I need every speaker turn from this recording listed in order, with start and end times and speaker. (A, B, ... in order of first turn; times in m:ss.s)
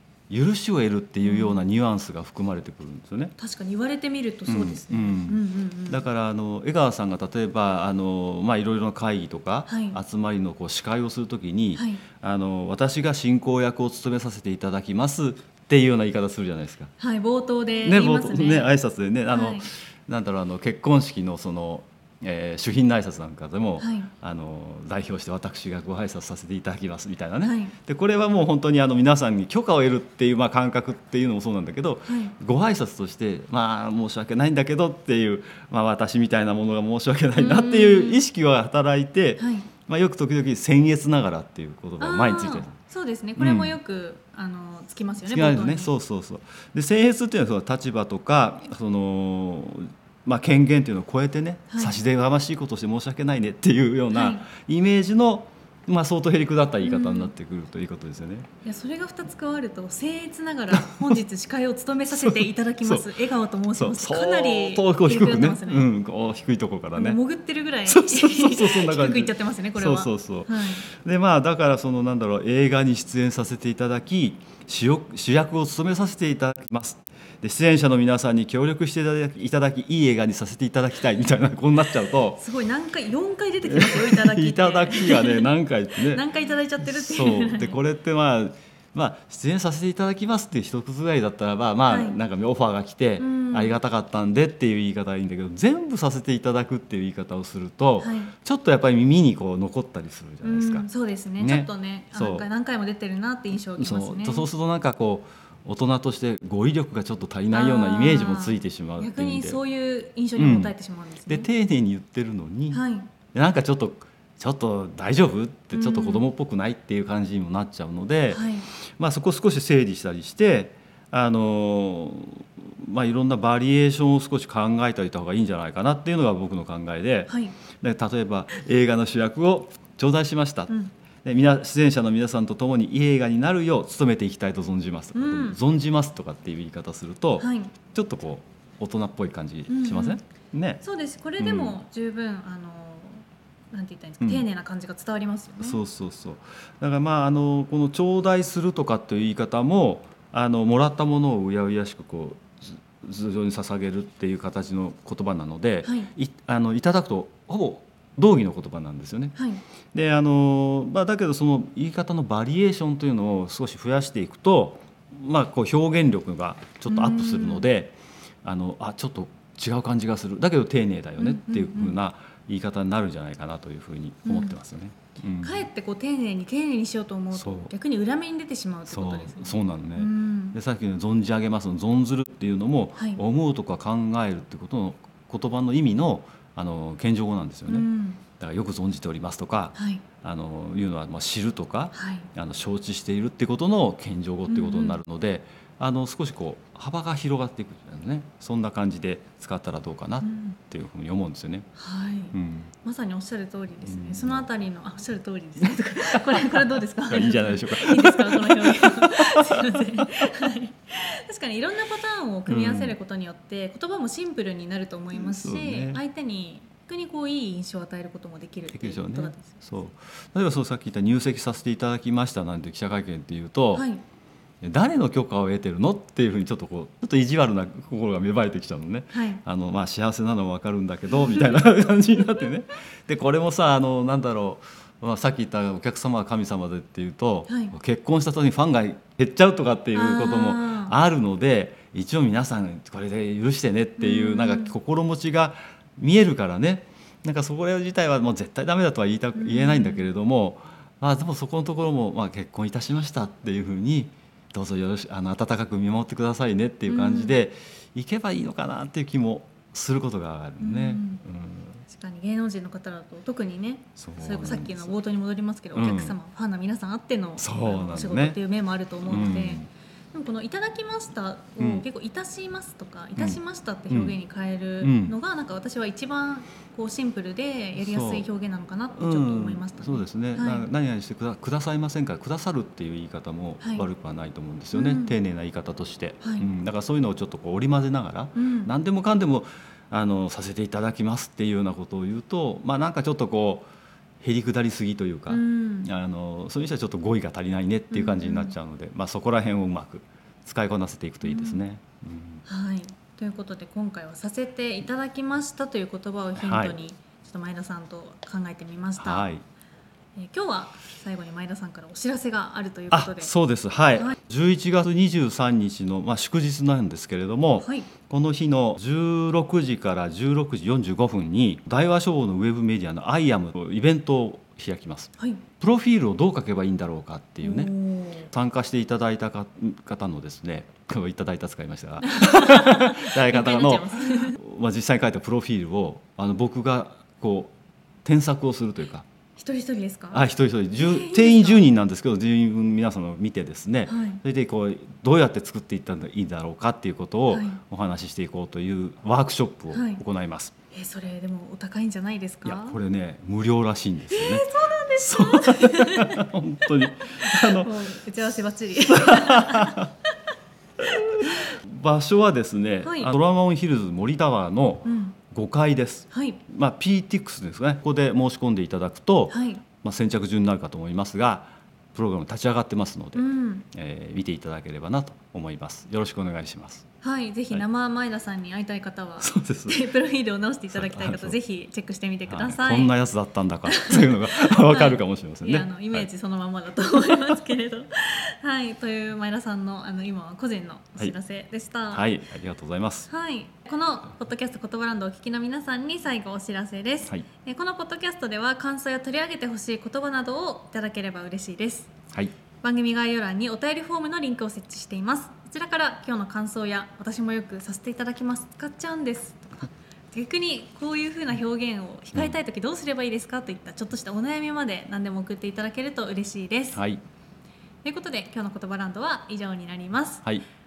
0:00.3-0:03.3 A
0:01.2-0:01.6 B
0:03.4-0:06.0 B
0:04.5-0:16.9 A
0:09.7-0:10.0 B
0:11.7-0:12.0 B
0:17.0-0:18.7 B
0:17.8-0:42.8 A
0:19.3-0:19.7 B
0:23.8-0:24.1 B
0:27.4-0:27.7 B
0:32.0-0:32.3 B
0:37.3-0:38.2 B
0:39.4-0:39.7 B
0:42.0-0:45.9 B
0:43.4-0:43.8 A
0:45.3-0:58.5 A
0:51.7-0:52.0 B
0:54.1-0:54.4 B
0:56.8-0:57.3 B
0:58.6-1:05.9 B
1:00.7-1:01.1 A
1:02.1-1:03.1 A
1:03.7-1:07.2 A
1:07.0-1:10.8 B
1:07.8-1:22.4 A
1:22.4-1:25.5 B
1:23.6-1:26.2 A
1:26.0-1:27.8 B
1:26.8-1:40.9 A
1:31.9-1:32.2 B
1:33.2-1:33.8 B
1:38.0-1:38.3 B
1:40.4-1:44.5 B
1:41.4-1:42.4 A
1:43.8-1:49.6 A
1:47.5-1:51.5 B
1:50.4-1:50.7 A
1:51.3-2:10.7 A
1:52.7-1:53.1 B
1:55.7-1:56.2 B
1:58.3-1:58.7 B
2:07.3-2:07.6 B
2:11.2-2:20.8 A
2:15.1-2:15.6 B
2:17.4-2:17.7 B
2:19.7-2:20.2 B
2:20.8-2:25.8 B
2:21.4-2:21.8 A
2:25.6-2:39.4 A
2:35.8-2:36.1 B
2:39.3-2:39.6 B
2:39.9-2:55.6 A
2:46.9-2:47.6 B
2:51.2-2:52.0 B
2:54.2-2:54.5 B
2:55.4-3:00.6 B
2:57.3-2:57.7 A
2:58.9-3:21.7 A
3:07.7-3:08.2 B
3:09.7-3:10.0 B
3:11.9-3:12.3 B
3:14.5-3:15.0 B
3:20.2-3:20.6 B
3:21.8-3:39.6 B
3:22.3-3:22.7 A
3:23.8-3:24.4 A
3:26.2-3:30.1 A
3:32.5-3:33.0 A
3:35.1-3:36.0 A
3:38.7-3:43.8 A
3:43.7-3:44.0 B
3:44.6-4:21.8 A
3:49.1-3:49.4 B
3:57.5-3:57.7 B
3:59.9-4:00.9 B
4:04.0-4:04.7 B
4:09.3-4:10.1 B
4:16.9-4:17.4 B
4:20.6-4:21.2 B
4:21.9-4:40.6 B
4:24.0-4:24.9 A
4:25.7-4:26.2 A
4:27.4-4:28.4 A
4:29.0-4:29.7 A
4:31.6-4:31.8 A
4:33.9-4:34.1 A
4:34.8-4:35.1 A
4:37.8-4:38.2 A
4:39.0-4:53.7 A
4:43.6-4:43.8 B
4:44.7-4:45.1 B
4:46.2-4:46.5 B
4:48.3-4:48.7 B
4:54.2-5:02.4 A
4:55.3-4:55.9 B
4:57.9-4:58.5 B
5:01.2-5:01.6 B
5:02.4-5:09.3 B
5:06.4-5:06.7 A
5:09.0-5:09.4 A
5:10.2-5:13.3 B
5:12.9-5:27.7 A
5:17.6-5:17.9 B
5:27.4-5:28.3 B
5:28.3-5:37.5 A
5:32.0-5:34.4 B
5:38.0-5:39.0 A
5:39.4-5:40.2 B
5:40.1-5:50.5 A
5:40.8-5:41.7 B
5:43.9-5:44.2 B
5:47.3-5:47.6 B
5:49.7-5:50.0 B
5:50.7-5:52.8 B
5:52.4-5:54.4 A
5:54.1-5:56.2 B
5:55.0-5:57.7 A
5:56.8-5:59.8 B
5:58.9-5:59.9 A
6:00.8-6:16.8 A
6:02.8-6:03.1 B
6:04.8-6:05.2 B
6:06.1-6:06.4 B
6:09.3-6:09.6 B
6:13.1-6:13.6 B
6:17.0-6:22.9 B
6:19.2-6:19.8 A
6:20.7-6:21.4 A
6:22.3-6:26.1 A
6:23.6-6:32.1 B
6:31.9-6:33.1 A
6:33.1-6:41.9 B
6:42.6-6:56.8 B
6:56.7-6:57.0 A
6:57.8-7:00.2 B